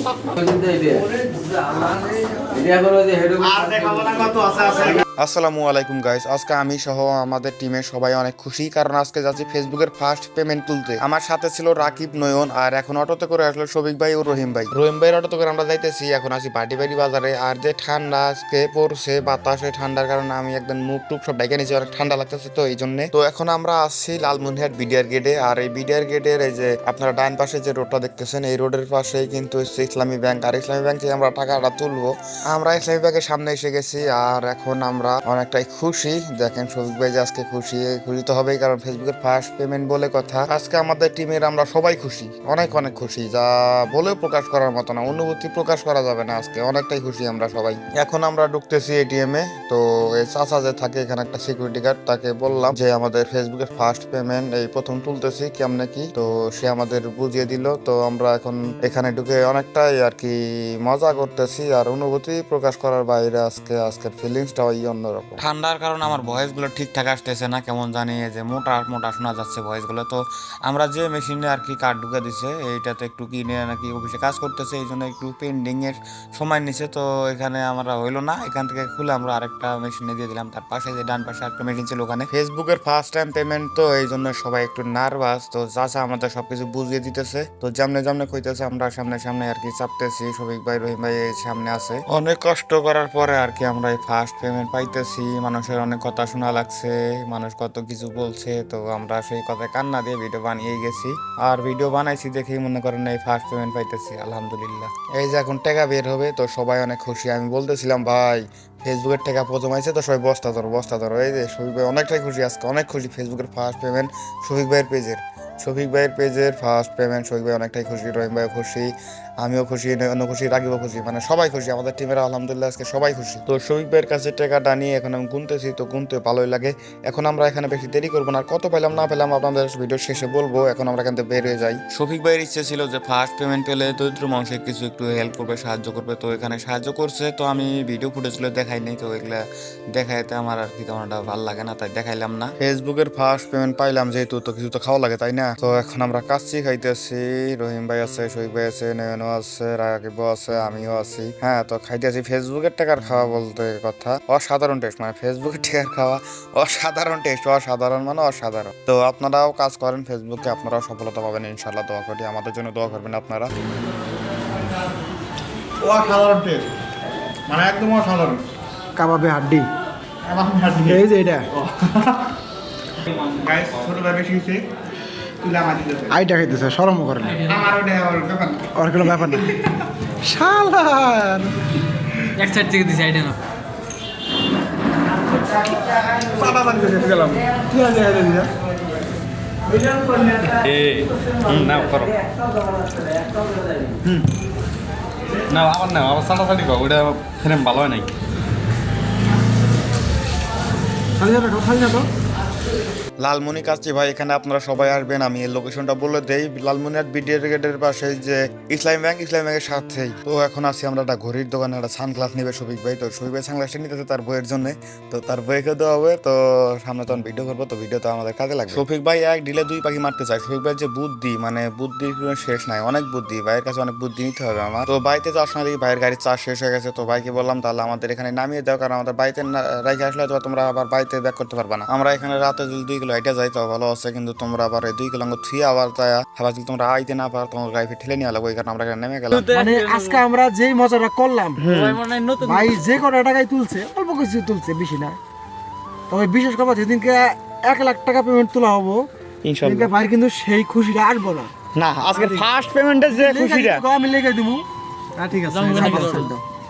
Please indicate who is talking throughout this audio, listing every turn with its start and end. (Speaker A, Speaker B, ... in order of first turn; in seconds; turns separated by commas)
Speaker A: 0.4-4.2, Speaker B: 4.2-139.4, Speaker B: 139.9-163.5, Speaker B: 165.8-166.6, Speaker B: 167.5-168.3, Speaker C: 169.0-169.7, Speaker B: 170.3-170.8, Speaker C: 170.9-171.5, Speaker B: 173.4-174.6, Speaker B: 175.4-176.0, Speaker C: 176.1-177.4, Speaker D: 177.3-177.6, Speaker B: 177.5-178.6, Speaker C: 178.8-179.5, Speaker C: 180.2-181.5, Speaker D: 182.4-183.4, Speaker C: 185.3-188.5, Speaker B: 186.4-187.4, Speaker C: 189.7-193.6, Speaker E: 190.6-192.2, Speaker E: 195.5-198.1, Speaker C: 201.2-202.1, Speaker B: 203.2-239.5, Speaker D: 239.4-240.2, Speaker C: 239.5-241.6, Speaker B: 241.6-242.0, Speaker D: 241.7-242.8, Speaker C: 242.4-245.2, Speaker C: 246.1-249.1, Speaker B: 249.4-249.9, Speaker C: 249.6-251.5, Speaker B: 251.8-253.8, Speaker C: 252.1-252.5, Speaker C: 253.1-254.7, Speaker C: 255.2-256.4, Speaker D: 255.5-256.3